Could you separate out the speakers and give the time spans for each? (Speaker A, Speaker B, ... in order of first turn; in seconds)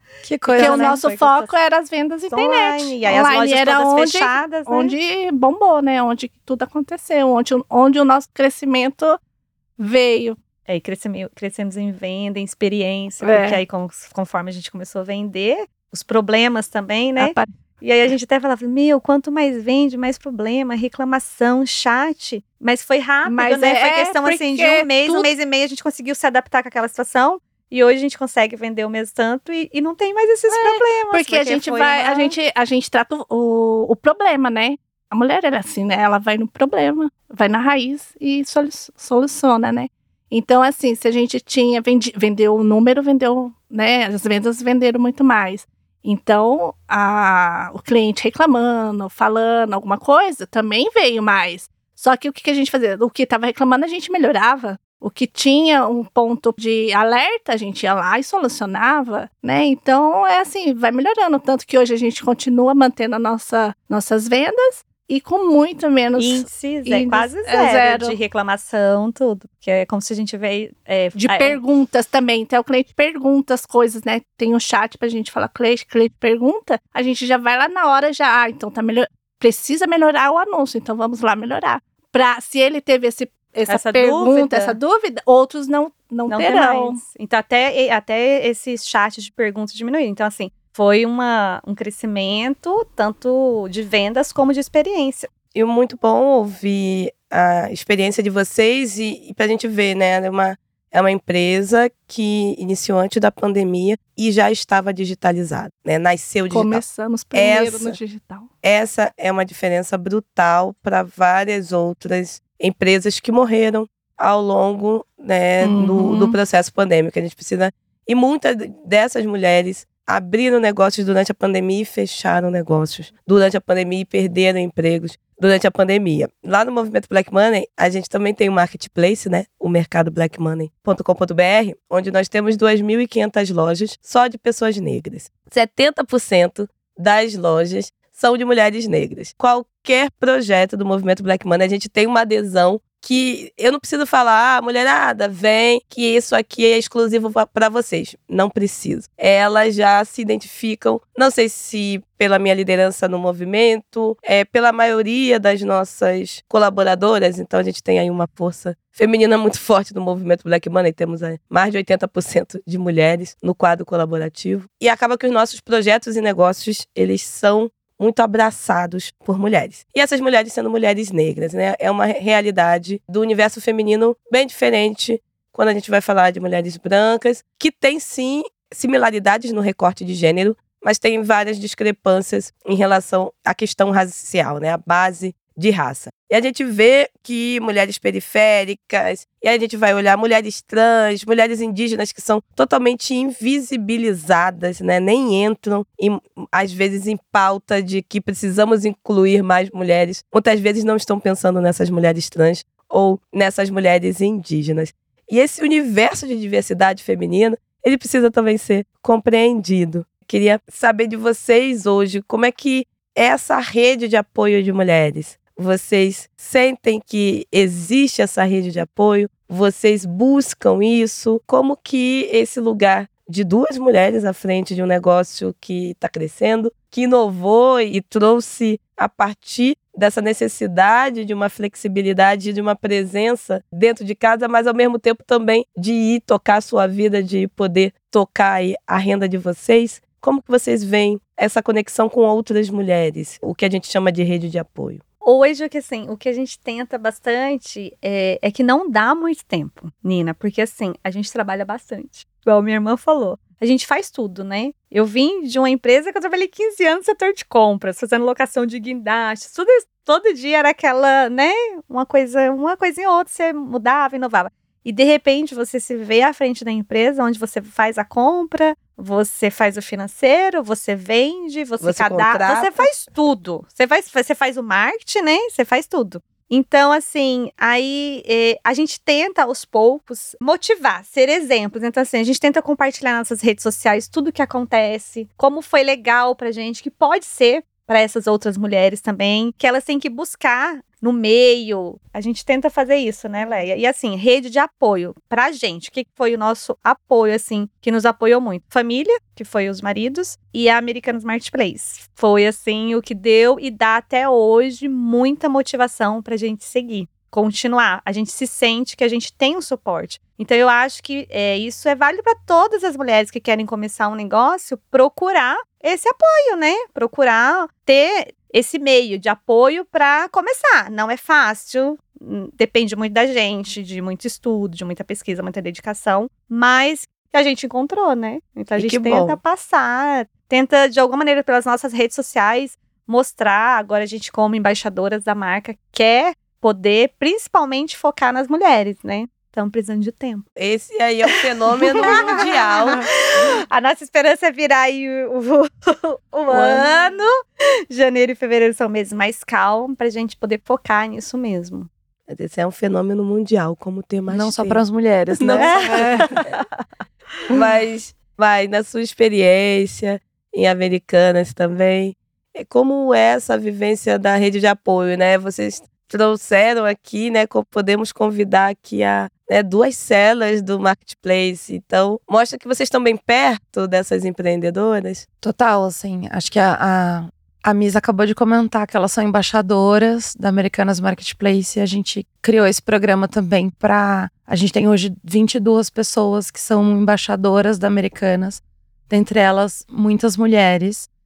Speaker A: 0.2-1.0, 354.3-356.0, 375.4-391.1
Speaker B: 0.4-1.6, 2.3-5.0, 10.7-32.4, 66.2-71.6, 83.7-84.8, 86.3-95.3, 245.2-340.4, 341.9-347.4, 347.9-351.9, 355.6-356.6
Speaker C: 0.6-9.2, 9.8-10.4, 13.2-13.6, 17.2-17.5, 23.3-25.3, 30.5-68.2, 71.2-87.0, 106.5-108.5, 115.6-116.4, 355.9-356.3
Speaker D: 95.5-108.0, 108.6-245.0, 271.8-272.9, 328.8-329.4, 340.6-343.1, 346.5-346.9, 352.3-354.8, 355.4-355.7, 357.5-375.2